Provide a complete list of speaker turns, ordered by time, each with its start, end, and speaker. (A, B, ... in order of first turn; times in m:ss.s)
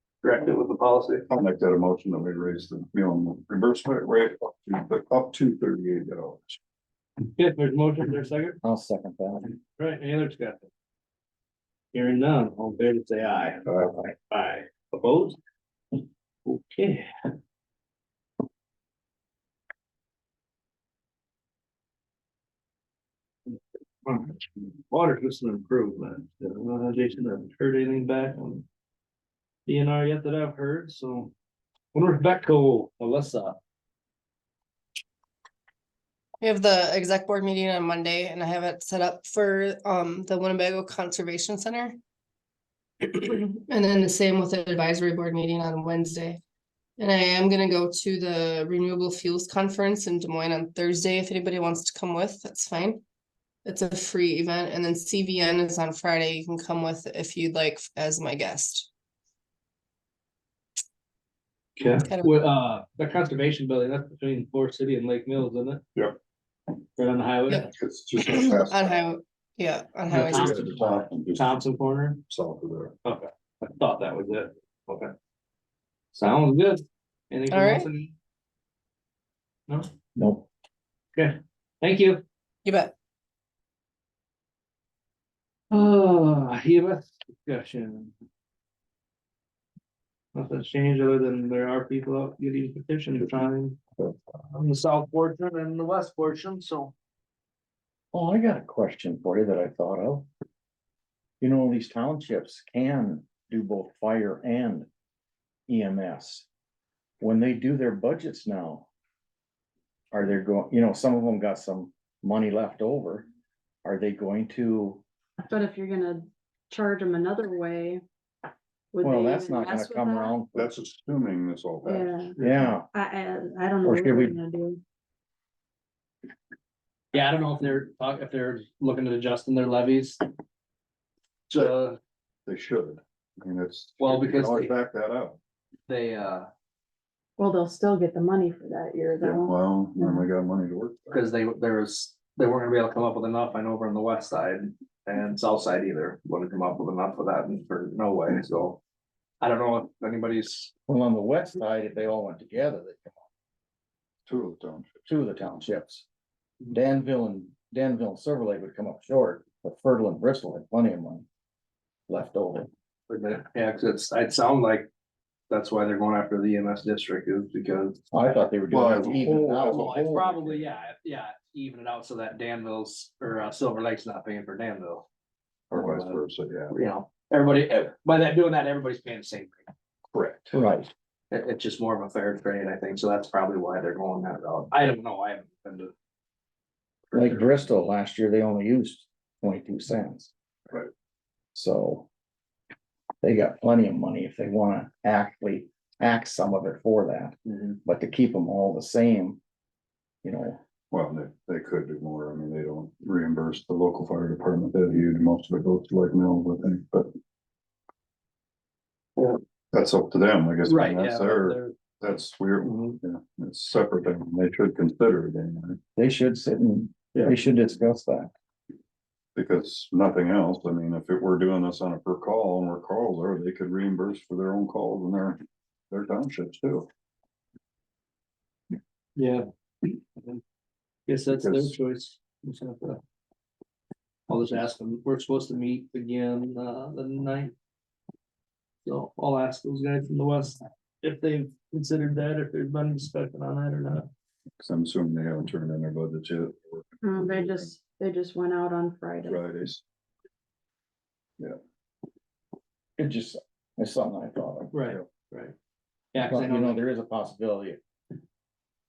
0:00.2-0:01.2 A
0:01.3-0:06.6 B
0:07.3-0:08.6 A
0:08.6-0:09.5 C
0:09.8-0:10.7 A
0:11.9-0:13.6 A
0:14.3-0:15.4 A
0:16.4-0:17.3 A
0:23.5-0:28.6 A
0:29.6-0:31.3 A
0:31.9-0:33.6 A
0:36.4-0:42.0 D
0:43.0-0:46.4 D
0:47.0-0:53.0 D
0:53.6-0:58.9 D
1:01.8-1:05.8 A
1:02.0-1:02.3 D
1:07.0-1:07.7 A
1:07.8-1:09.0 B
1:08.2-1:10.7 D
1:10.1-1:12.2 A
1:10.1-1:11.5 B
1:12.3-1:12.9 B
1:13.0-1:15.1 A
1:16.1-1:18.1 A
1:17.5-1:17.9 D
1:20.2-1:20.5 C
1:21.1-1:22.2 A
1:22.6-1:22.9 D
1:25.7-1:28.1 A
1:30.3-1:33.8 A
1:34.5-1:36.9 A
1:38.1-1:40.3 C
1:41.4-1:44.9 C
1:45.7-1:46.5 C
1:47.2-1:48.9 C
1:50.1-1:53.3 C
1:53.8-1:55.0 C
1:55.4-1:58.0 E
1:58.9-2:00.4 E
1:59.0-2:00.8 C
2:00.5-2:02.5 B
2:01.8-2:02.3 E
2:02.4-2:02.6 A
2:02.4-2:02.9 C
2:02.9-2:04.8 E
2:03.8-2:04.4 C
2:07.1-2:10.2 A
2:11.5-2:12.0 A
2:12.4-2:15.4 B
2:14.0-2:14.7 A
2:15.9-2:16.5 A
2:17.4-2:20.2 E
2:19.2-2:21.2 B
2:21.1-2:28.8 A
2:29.4-2:30.7 A
2:30.9-2:33.2 C
2:34.2-2:34.9 B
2:35.1-2:36.0 C
2:36.7-2:41.3 C
2:42.1-2:42.7 C
2:43.1-2:44.9 A
2:45.5-2:48.0 A
2:48.1-2:50.1 C
2:48.7-2:50.7 B
2:49.6-2:55.1 A
2:55.7-2:56.7 B
2:55.7-2:56.2 A
2:56.7-2:59.7 A
3:00.1-3:00.6 B
3:00.5-3:00.9 C
3:01.3-3:05.9 A
3:07.1-3:07.7 A
3:07.1-3:10.3 C
3:11.5-3:12.1 C
3:13.2-3:19.4 C
3:20.2-3:20.6 C
3:20.9-3:27.1 B
3:29.2-3:35.8 B
3:30.6-3:31.7 A
3:32.7-3:33.0 A
3:36.0-3:38.3 C
3:39.3-3:46.9 B
3:49.2-3:50.4 A
3:51.1-3:53.0 A
3:51.3-3:51.7 B
3:54.3-3:57.5 A
3:58.8-4:04.1 A
4:04.6-4:07.7 B
4:07.0-4:09.4 E
4:09.2-4:09.8 B
4:13.0-4:14.7 C
4:14.7-4:15.5 A
4:16.1-4:16.8 A
4:16.2-4:17.8 C